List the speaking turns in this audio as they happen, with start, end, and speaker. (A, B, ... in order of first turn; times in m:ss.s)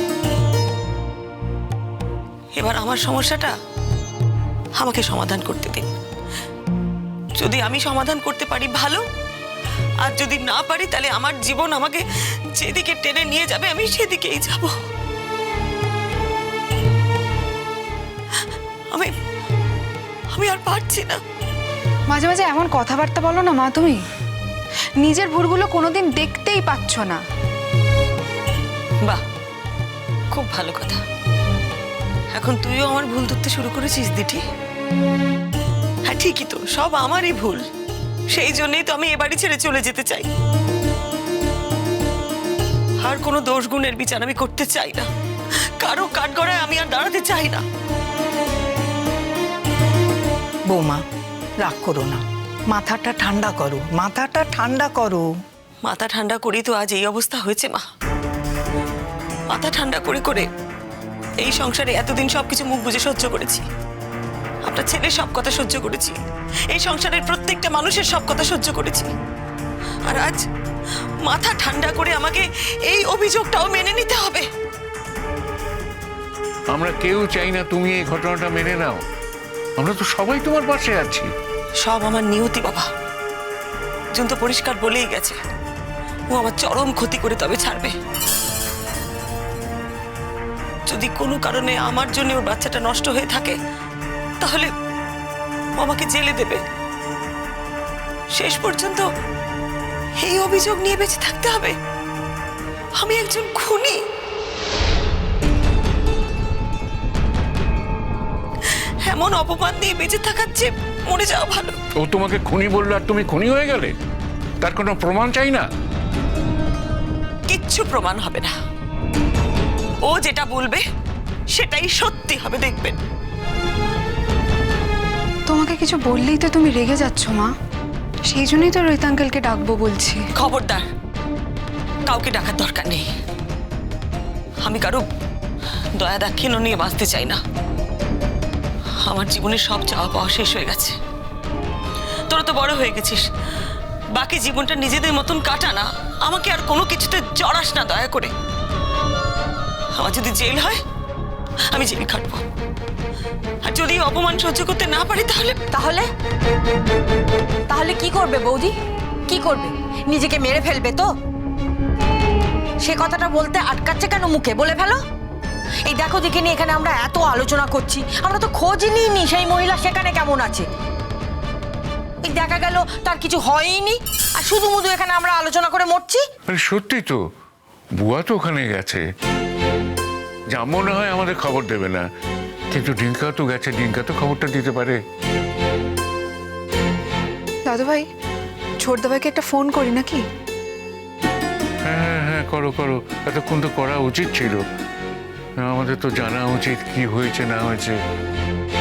0:02.5-0:03.5 A
0:04.8-0:05.9 A
0:07.4-0:09.0 A
0:10.0-0:12.0 A
0:12.6-0:14.8 A
0:20.3-0:21.2 A
0:22.1-0:24.0 B
0:25.0-0:27.2 B
0:30.3-0:31.0 A
0:32.3-0:34.4 A
0:36.0-0:37.6 A
0:38.3-0:40.3 A
0:43.0-0:45.1 A
0:45.8-0:47.6 A
0:50.7-0:51.0 C
0:51.6-0:55.2 C
0:55.8-0:57.8 A
0:59.5-1:00.5 A
1:01.4-1:03.6 A
1:04.6-1:09.1 A
1:10.0-1:10.4 A
1:11.2-1:14.5 A
1:16.7-1:19.0 D
1:19.8-1:21.3 D
1:21.8-1:22.9 A
1:24.1-1:25.4 A
1:26.3-1:27.9 A
1:30.9-1:33.6 A
1:34.4-1:34.7 A
1:35.8-1:36.6 A
1:38.3-1:39.0 A
1:40.2-1:41.8 A
1:43.0-1:44.0 A
1:49.0-1:51.8 A
1:52.1-1:53.9 D
1:54.6-1:55.6 D
1:57.5-1:58.5 A
2:00.0-2:00.8 A
2:01.5-2:03.0 A
2:05.5-2:07.5 B
2:08.3-2:10.2 B
2:10.4-2:10.9 A
2:12.1-2:13.1 A
2:14.6-2:15.0 A
2:16.0-2:17.4 A
2:19.0-2:21.0 A
2:22.3-2:23.3 A
2:24.1-2:28.3 A
2:29.9-2:30.8 A
2:31.7-2:32.4 A
2:33.6-2:35.6 A
2:35.7-2:36.1 E
2:37.7-2:38.7 E
2:39.3-2:41.1 E
2:42.8-2:45.0 E
2:45.9-2:50.7 E
2:52.2-2:56.2 E
2:56.5-2:57.2 D
2:58.0-2:59.0 D
3:00.5-3:02.0 D
3:02.7-3:04.9 D
3:07.6-3:08.1 B
3:08.8-3:10.2 B
3:11.8-3:14.6 D
3:15.6-3:17.9 D